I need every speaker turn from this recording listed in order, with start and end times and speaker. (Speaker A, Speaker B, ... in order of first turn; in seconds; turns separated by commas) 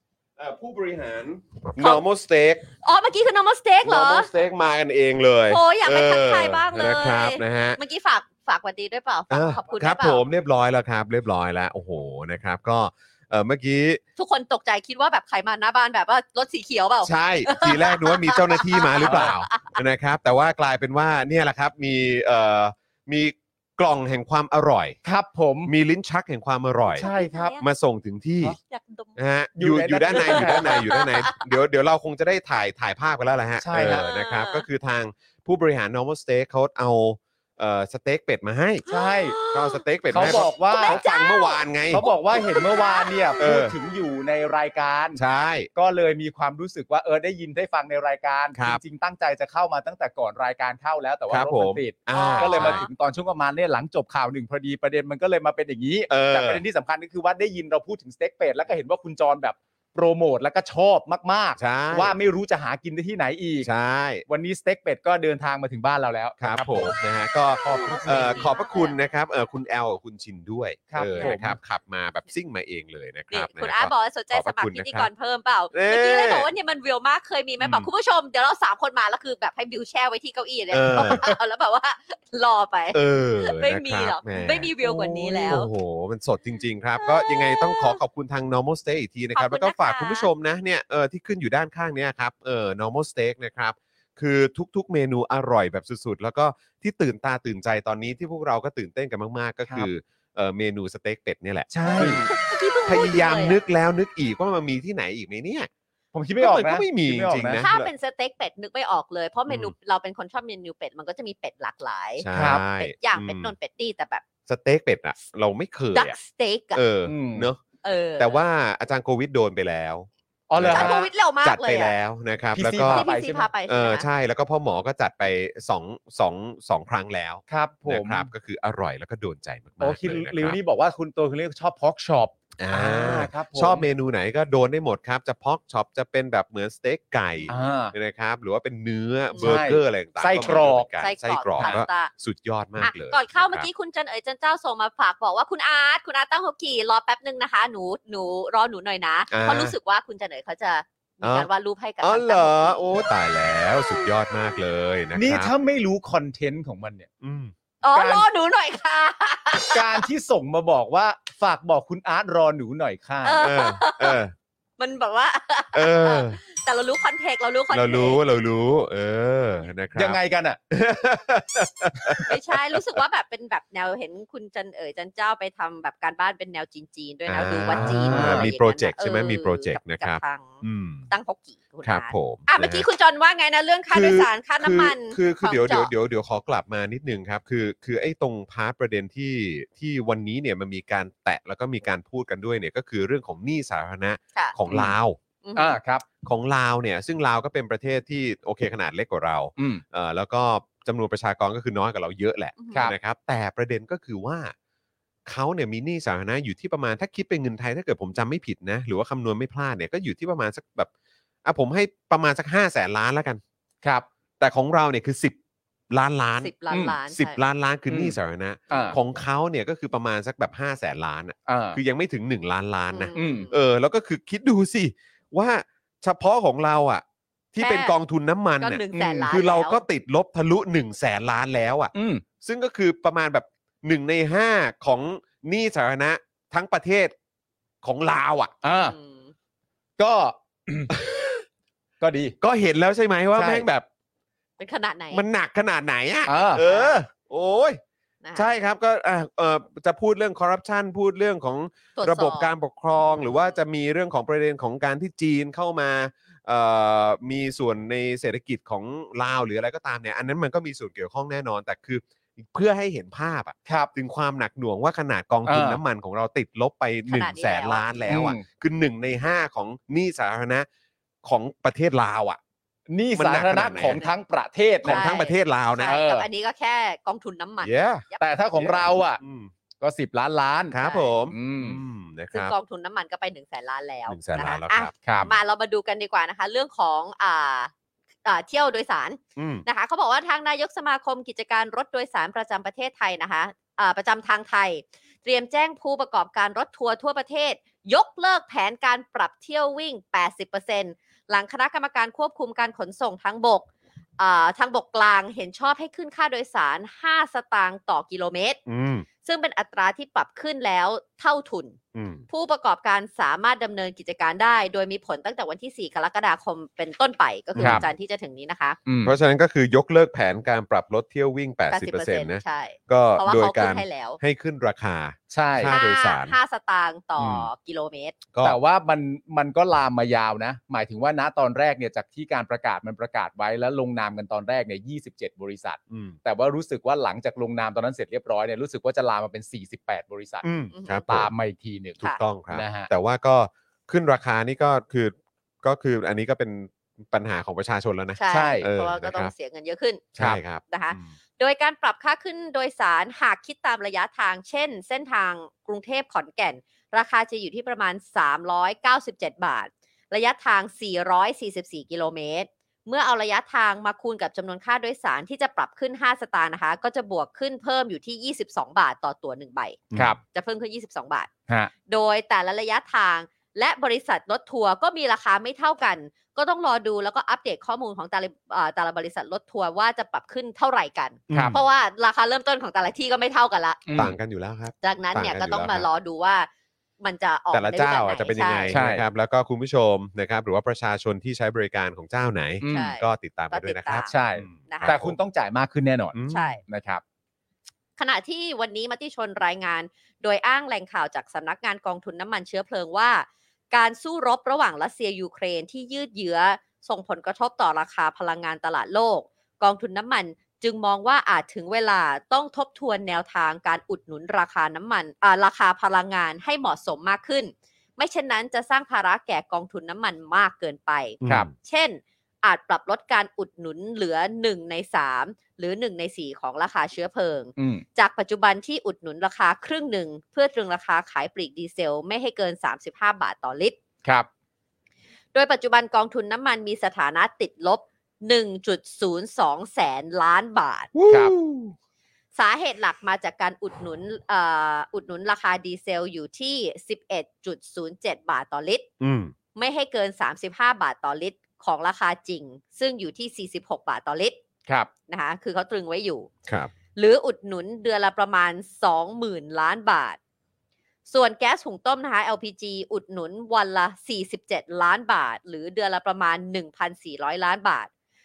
Speaker A: 0.4-2.7, Speaker B: 1.8-2.0, Speaker B: 2.8-4.3, Speaker A: 3.8-7.8, Speaker B: 5.5-10.2, Speaker A: 9.3-14.0, Speaker B: 14.2-19.8, Speaker A: 17.0-25.0, Speaker C: 19.0-19.3, Speaker C: 25.0-25.7, Speaker A: 25.6-28.6, Speaker C: 26.9-27.5, Speaker B: 27.0-27.6, Speaker B: 28.7-29.1, Speaker A: 29.1-38.8, Speaker C: 29.5-30.9, Speaker B: 30.1-31.4, Speaker C: 33.6-34.0, Speaker B: 33.8-34.6, Speaker B: 38.9-43.5, Speaker C: 38.9-39.4, Speaker A: 39.5-42.1, Speaker C: 40.1-41.0, Speaker C: 41.9-45.2, Speaker A: 43.4-43.7, Speaker A: 45.1-45.7, Speaker C: 45.7-63.7, Speaker A: 48.5-48.8, Speaker A: 51.3-52.9, Speaker B: 52.1-52.9, Speaker A: 56.1-56.6, Speaker A: 61.6-62.2, Speaker A: 63.6-64.2, Speaker C: 64.3-67.0, Speaker A: 66.4-75.1, Speaker C: 67.6-68.5, Speaker B: 67.6-68.9, Speaker C: 70.9-71.6, Speaker B: 73.3-85.7, Speaker A: 75.7-76.5, Speaker A: 77.6-77.9, Speaker A: 80.7-81.4, Speaker A: 82.9-102.3, Speaker B: 87.0-88.0, Speaker B: 89.3-90.3, Speaker C: 101.7-102.2, Speaker B: 101.8-103.6, Speaker A: 102.8-105.7, Speaker C: 106.1-107.7, Speaker A: 106.4-107.9, Speaker B: 107.6-114.2, Speaker A: 109.5-109.7, Speaker A: 112.2-113.5, Speaker C: 112.3-112.6, Speaker A: 114.5-116.2, Speaker B: 115.9-116.8, Speaker A: 116.7-117.6, Speaker C: 117.0-117.5, Speaker B: 117.8-118.4, Speaker A: 118.2-123.1, Speaker C: 120.5-121.1, Speaker B: 120.7-121.9, Speaker C: 122.5-123.5, Speaker B: 122.6-124.1, Speaker A: 123.7-130.6, Speaker C: 127.5-128.3, Speaker C: 129.8-133.8, Speaker A: 132.6-143.7, Speaker C: 137.5-137.9, Speaker B: 139.3-139.6, Speaker C: 139.4-140.9, Speaker B: 140.4-142.1, Speaker C: 141.6-141.8, Speaker B: 142.8-153.0, Speaker A: 149.3-149.7, Speaker A: 151.2-151.5, Speaker A: 152.0-155.5, Speaker C: 155.1-157.1, Speaker A: 157.2-157.5, Speaker B: 157.8-160.1, Speaker C: 157.9-158.2, Speaker C: 159.7-163.5, Speaker B: 163.2-164.2, Speaker A: 163.4-164.3, Speaker B: 164.8-168.2, Speaker A: 165.7-166.4, Speaker A: 167.7-170.2, Speaker C: 169.9-170.6, Speaker A: 170.7-173.0, Speaker B: 172.3-185.9, Speaker A: 177.3-181.1, Speaker C: 177.7-178.5, Speaker A: 181.8-182.8, Speaker A: 183.9-195.2, Speaker B: 195.4-195.8, Speaker C: 195.6-196.1, Speaker A: 196.2-204.5, Speaker C: 199.6-199.8, Speaker B: 202.6-202.9, Speaker A: 205.2-210.9, Speaker A: 211.4-213.4, Speaker A: 214.4-215.4, Speaker A: 215.9-216.5, Speaker B: 216.4-217.4, Speaker C: 216.7-216.9, Speaker A: 217.1-237.1, Speaker C: 217.9-218.2, Speaker C: 218.7-219.0, Speaker C: 221.5-221.8, Speaker B: 222.9-223.6, Speaker C: 223.1-223.5, Speaker B: 227.6-227.9, Speaker B: 228.6-229.8, Speaker C: 231.9-232.2, Speaker A: 237.8-238.5, Speaker C: 238.6-238.9, Speaker B: 238.7-239.3, Speaker C: 240.0-240.9, Speaker A: 240.9-241.4, Speaker C: 242.0-242.3, Speaker A: 242.4-243.8, Speaker C: 243.3-243.7, Speaker B: 244.6-245.2, Speaker A: 245.1-247.8, Speaker C: 246.2-246.6, Speaker B: 246.5-247.0, Speaker B: 248.2-248.5, Speaker A: 248.3-270.7, Speaker B: 252.0-252.5, Speaker B: 253.0-253.6, Speaker C: 265.4-265.8, Speaker B: 267.1-267.9, Speaker C: 268.1-268.4, Speaker A: 271.2-272.4, Speaker C: 272.9-275.1, Speaker A: 273.1-274.0, Speaker A: 274.8-276.0, Speaker B: 274.8-278.4, Speaker C: 275.9-276.2, Speaker A: 277.6-278.0, Speaker C: 278.2-279.2, Speaker A: 278.6-279.5, Speaker C: 279.8-280.8, Speaker A: 280.7-282.5, Speaker B: 280.8-281.1, Speaker C: 281.3-281.8, Speaker B: 282.3-287.7, Speaker A: 284.1-285.3, Speaker C: 285.0-285.3, Speaker B: 288.2-303.6, Speaker A: 289.4-289.6, Speaker B: 304.2-308.6, Speaker A: 308.7-309.1, Speaker B: 309.2-311.8, Speaker A: 311.9-312.2, Speaker B: 312.3-318.8, Speaker A: 317.6-317.9, Speaker C: 317.6-317.9, Speaker C: 318.9-319.1, Speaker A: 319.0-326.4, Speaker B: 321.7-324.2, Speaker C: 325.3-325.7, Speaker B: 325.6-328.2, Speaker A: 327.2-327.5, Speaker A: 328.3-328.6, Speaker C: 328.4-340.4, Speaker A: 335.9-336.2, Speaker A: 340.4-341.3, Speaker B: 340.7-341.1, Speaker C: 341.1-342.9, Speaker A: 342.0-349.3, Speaker B: 348.1-350.1, Speaker C: 348.3-348.6, Speaker A: 350.2-351.1, Speaker B: 350.7-371.3, Speaker A: 369.9-370.2, Speaker B: 371.9-383.8, Speaker A: 381.3-381.6, Speaker C: 381.3-381.6, Speaker C: 383.9-384.1, Speaker A: 383.9-385.9, Speaker B: 384.8-386.5, Speaker B: 387.0-388.8, Speaker A: 387.5-395.1, Speaker C: 388.7-389.0, Speaker C: 392.6-392.9, Speaker B: 392.7-394.1, Speaker C: 394.0-397.0, Speaker B: 394.7-395.0, Speaker A: 396.1-396.6, Speaker B: 396.3-396.6, Speaker B: 398.0-433.8, Speaker A: 421.2-421.5, Speaker C: 427.6-427.8, Speaker B: 435.3-440.9, Speaker A: 440.9-441.7, Speaker C: 441.1-441.3, Speaker B: 442.4-448.9, Speaker A: 449.0-449.3, Speaker B: 449.5-454.4, Speaker B: 455.1-456.3, Speaker B: 456.9-460.2, Speaker B: 461.1-467.9